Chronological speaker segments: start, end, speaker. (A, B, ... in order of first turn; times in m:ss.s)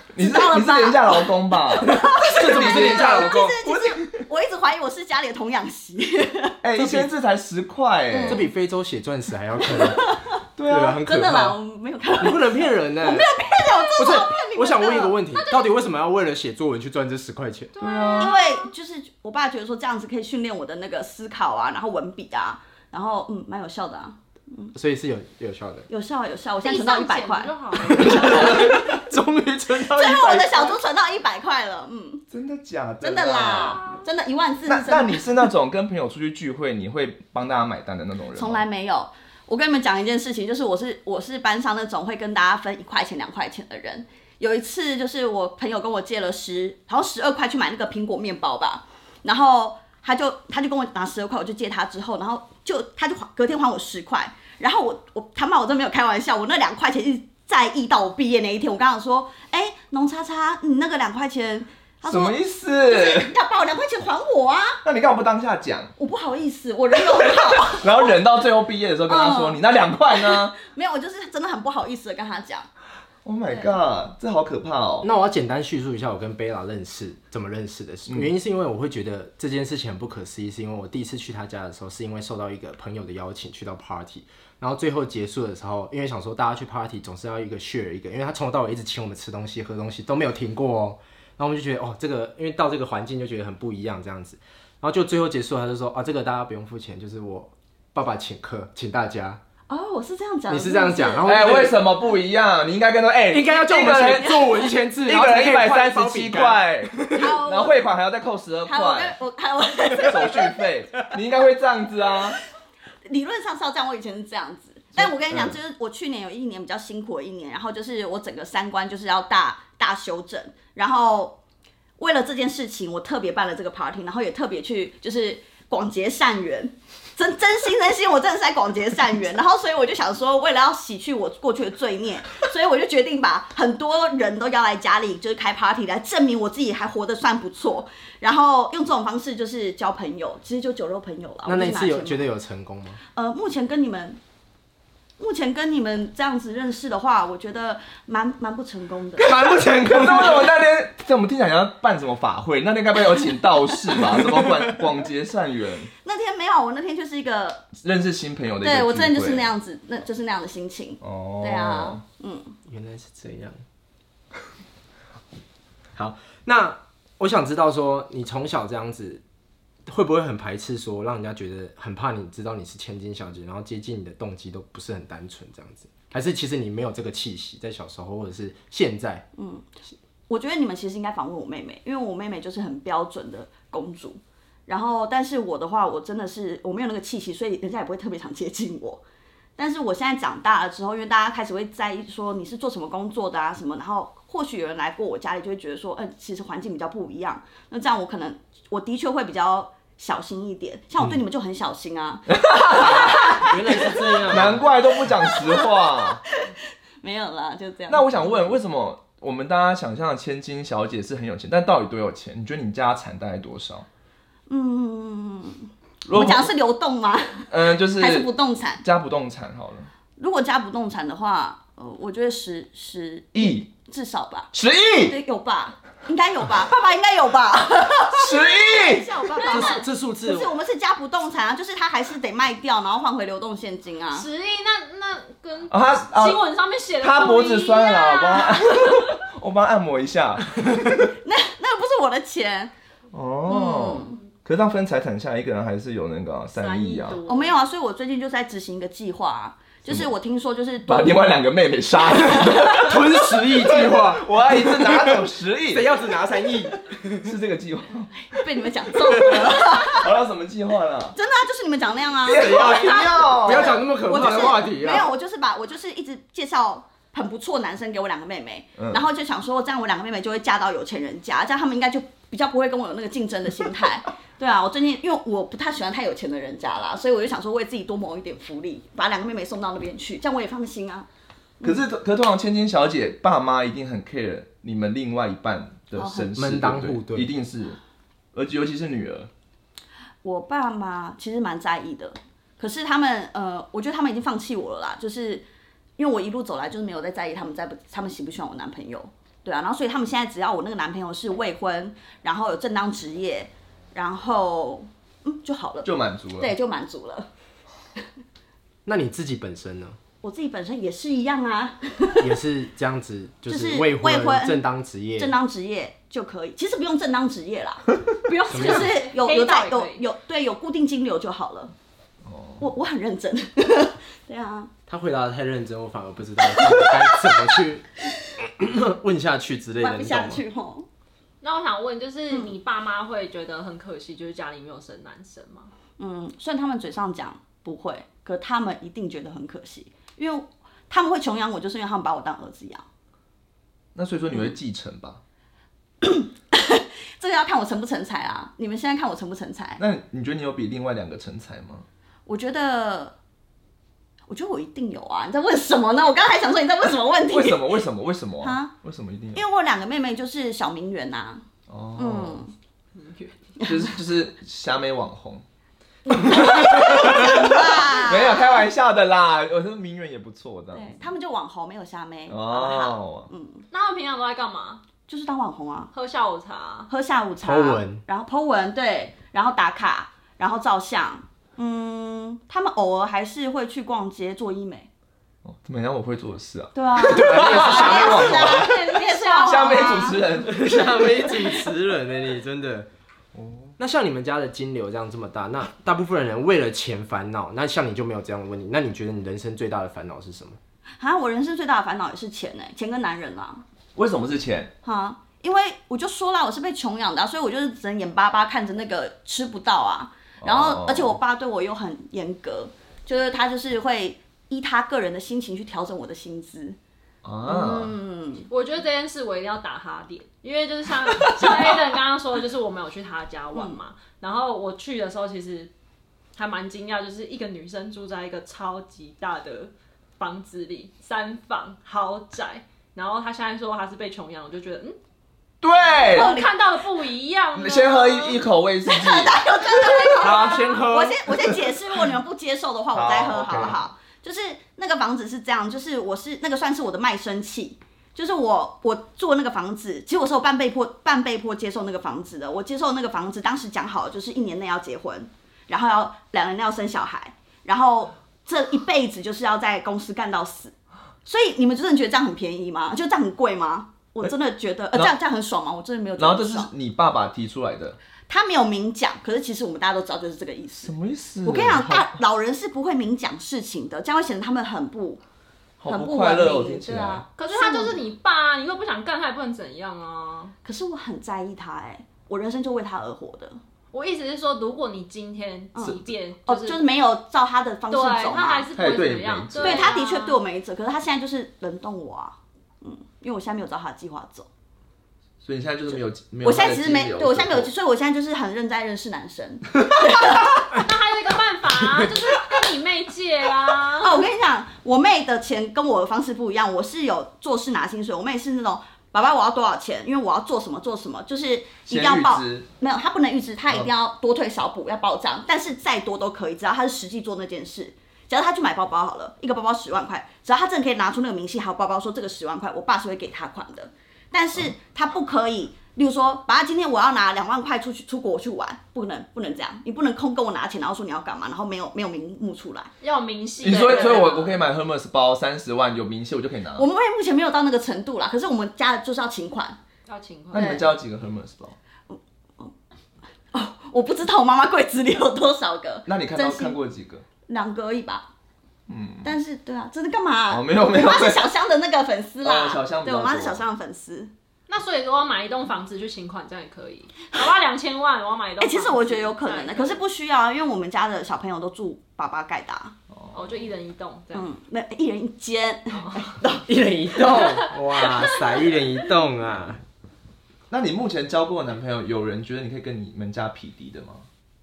0:00.1-0:04.1 A
0:00.2-0:06.6 B
0:01.8-0:03.6 C
0:06.6-0:08.4 A
0:06.7-0:07.1 C
0:08.1-0:08.5 B
0:08.3-0:10.1 C
0:09.7-0:10.2 B
0:10.6-0:11.0 A
0:10.6-0:11.6 C
0:11.0-0:15.2 B
0:12.2-0:13.3 C
0:14.0-0:17.8 C
0:17.7-0:18.6 D
0:17.8-0:18.4 A
0:18.2-0:24.7 B
0:24.7-0:25.9 C
0:25.9-0:28.8 B
0:26.6-0:28.7 D
0:27.8-0:30.7 C
0:29.8-0:32.2 B
0:32.3-0:33.8 A
0:33.0-0:35.2 B
0:33.3-0:34.0 D
0:34.6-0:38.6 A
0:38.3-1:04.8 B
1:02.0-1:03.3 A
1:04.8-1:05.9 A
1:06.0-1:08.1 B
1:07.8-1:10.5 A
1:09.1-1:12.7 B
1:13.2-1:15.1 A
1:13.5-1:13.8 B
1:15.0-1:39.4 C
1:39.7-1:41.3 B
1:40.5-1:41.8 C
1:41.2-1:44.4 A
1:43.3-1:47.3 C
1:45.1-1:49.2 A
1:47.2-1:47.8 B
1:48.7-1:50.5 B
1:50.0-1:52.4 A
1:53.0-2:01.4 B
1:55.0-1:55.5 A
2:02.0-2:22.3 B
2:21.4-2:23.0 C
2:23.1-2:24.2 B
2:25.2-2:29.5 B
2:29.2-2:30.5 C
2:29.3-2:35.9 A
2:34.0-2:34.8 C
2:36.0-2:37.7 B
2:37.8-2:39.5 A
2:38.6-2:42.5 B
2:41.0-2:42.0 A
2:42.6-2:43.6 C
2:45.9-2:49.2 C
2:49.9-2:59.2 C
2:59.4-2:59.7 B
3:00.3-3:09.0 B
3:09.6-3:26.2 B
3:22.3-3:23.5 A
3:23.1-3:24.6 C
3:24.3-3:26.2 A
3:27.0-3:28.5 B
3:27.9-3:33.9 A
3:34.5-3:38.8 B
3:36.1-3:36.5 A
3:37.5-3:38.3 A
3:38.8-3:39.9 A
3:40.2-3:44.5 B
3:43.3-3:43.6 A
3:44.5-3:45.1 A
3:45.0-3:54.3 B
3:48.1-3:49.0 A
3:49.4-3:49.8 D
3:49.4-3:50.5 C
3:54.1-3:59.1 D
3:55.7-3:56.4 A
3:57.0-4:01.0 A
4:01.2-4:02.7 B
4:03.1-4:07.2 A
4:03.5-4:04.2 B
4:06.5-4:07.6 D
4:07.3-4:11.2 B
4:10.8-4:15.9 A
4:12.2-4:17.3 C
4:17.2-4:18.1 A
4:18.2-4:20.1 B
4:19.1-4:19.4 C
4:19.5-4:21.1 A
4:21.1-4:41.1 B
4:22.2-4:23.8 A
4:22.4-4:25.1 C
4:28.8-4:29.0 A
4:41.6-4:47.8 A
4:46.0-4:46.3 B
4:46.3-4:47.3 C
4:48.3-4:49.3 A
4:50.2-4:55.4 B
4:56.0-5:07.3 B
5:05.8-5:06.5 A
5:08.8-5:10.0 C
5:10.2-5:12.3 B
5:12.2-5:15.3 C
5:13.4-5:14.6 B
5:15.2-5:21.7 B
5:18.5-5:19.0 C
5:18.5-5:20.0 D
5:22.2-5:22.6 A
5:22.6-5:24.7 B
5:24.9-5:30.4 C
5:29.8-5:30.8 B
5:31.4-5:35.7 D
5:36.0-5:42.8 B
5:43.9-5:45.2 A
5:46.0-5:49.8 B
5:49.8-5:51.8 A
5:52.3-5:53.1 B
5:54.3-5:57.8 B
5:57.3-5:59.4 A
5:58.4-5:58.7 B
5:59.3-6:01.4 B
6:01.7-6:02.4 A
6:02.0-6:02.5 B
6:02.9-6:03.4 D
6:03.6-6:05.4 A
6:06.1-6:08.7 B
6:06.7-6:10.8 A
6:10.7-6:13.6 B
6:12.3-6:13.3 A
6:13.7-6:14.8 D
6:15.1-6:15.9 B
6:15.9-6:16.9 D
6:16.9-6:24.9 B
6:17.4-6:18.0 C
6:25.4-6:30.6 A
6:26.7-6:30.2 B
6:27.0-6:28.6 C
6:27.5-6:30.3 D
6:30.4-6:32.9 C
6:33.3-6:33.7 A
6:33.8-6:40.6 C
6:41.0-6:43.6 B
6:43.9-6:44.7 A
6:44.8-6:56.8 B
6:50.4-6:51.1 A
6:57.2-6:57.9 A
6:57.4-6:58.4 B
6:58.5-7:05.7 D
7:03.5-7:03.8 B
7:06.4-7:15.0 D
7:15.6-7:16.3 A
7:15.9-7:18.5 D
7:16.0-7:16.5 B
7:17.5-7:19.4 A
7:18.8-7:40.7 B
7:20.1-7:21.5 C
7:22.9-7:23.8 A
7:23.4-7:23.7 C
7:41.2-7:46.7 B
7:46.2-7:48.0 A
7:48.3-7:50.9 B
7:50.8-7:52.1 A
7:51.4-7:55.2 B
7:55.8-7:57.2 A
7:55.8-7:58.0 B
7:57.3-8:00.5 D
8:00.6-8:03.6 B
8:03.9-8:06.8 D
8:05.7-8:08.7 B
8:07.9-8:10.4 D
8:08.7-8:09.9 A
8:09.6-8:14.5 B
8:15.4-8:17.7 A
8:16.4-8:20.8 B
8:20.7-8:24.2 D
8:24.0-8:52.9 B
8:31.9-8:32.6 A
8:53.0-8:54.6 D
8:53.6-8:54.3 B
8:53.6-8:56.8 A
8:56.8-8:59.8 B
9:00.1-9:00.7 D
9:00.5-9:00.9 B
9:00.5-9:01.8 A
9:02.1-9:02.7 B
9:03.5-9:06.8 B
9:06.1-9:07.2 A
9:07.5-9:08.3 B
9:08.9-9:09.3 A
9:09.2-9:14.3 B
9:10.5-9:11.5 A
9:12.4-9:13.6 A
9:14.7-9:20.0 D
9:18.6-9:22.9 B
9:23.1-9:23.6 A
9:23.3-9:24.5 D
9:24.3-9:26.7 B
9:25.9-9:26.3 D
9:26.6-9:29.8 C
9:27.2-9:27.6 B
9:27.3-9:28.4 D
9:30.7-9:34.2 A